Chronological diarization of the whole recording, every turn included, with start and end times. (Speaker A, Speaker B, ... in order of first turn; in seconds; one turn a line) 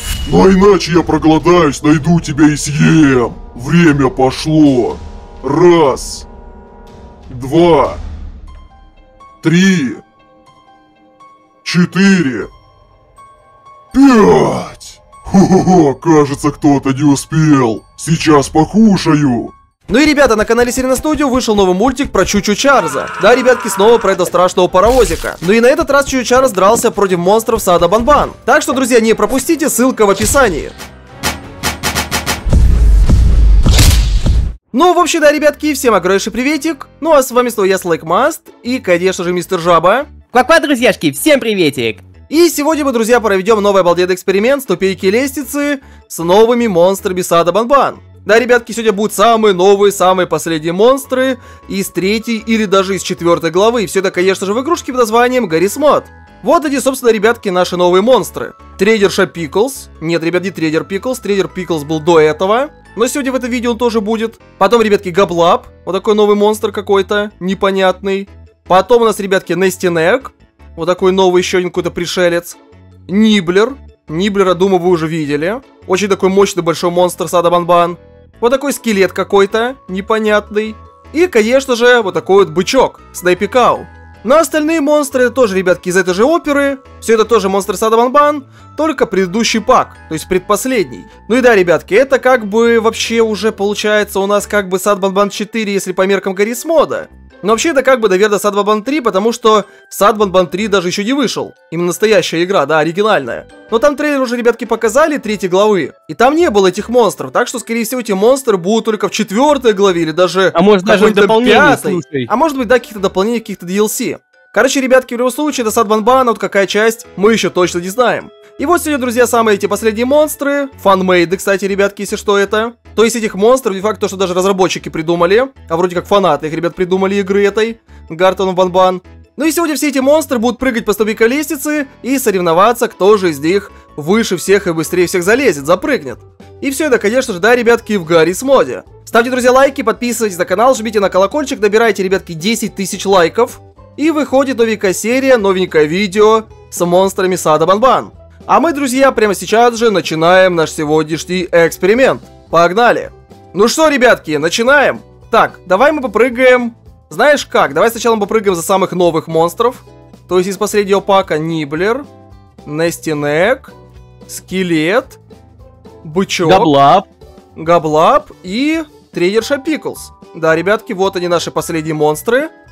Speaker A: 0.2-6.3
Speaker A: 7.3-8.0
Speaker A: 9.4-10.0
Speaker A: 11.6-12.5
Speaker A: 13.9-19.5
Speaker B: 19.9-30.7
Speaker B: 34.7-40.1
Speaker C: 40.3-42.0
Speaker B: 42.3-162.0
Speaker C: 110.5-112.3
Speaker B: 162.6-163.7
Speaker B: 164.3-165.2
Speaker B: 166.0-166.7
Speaker C: 166.4-167.1
Speaker B: 167.6-172.5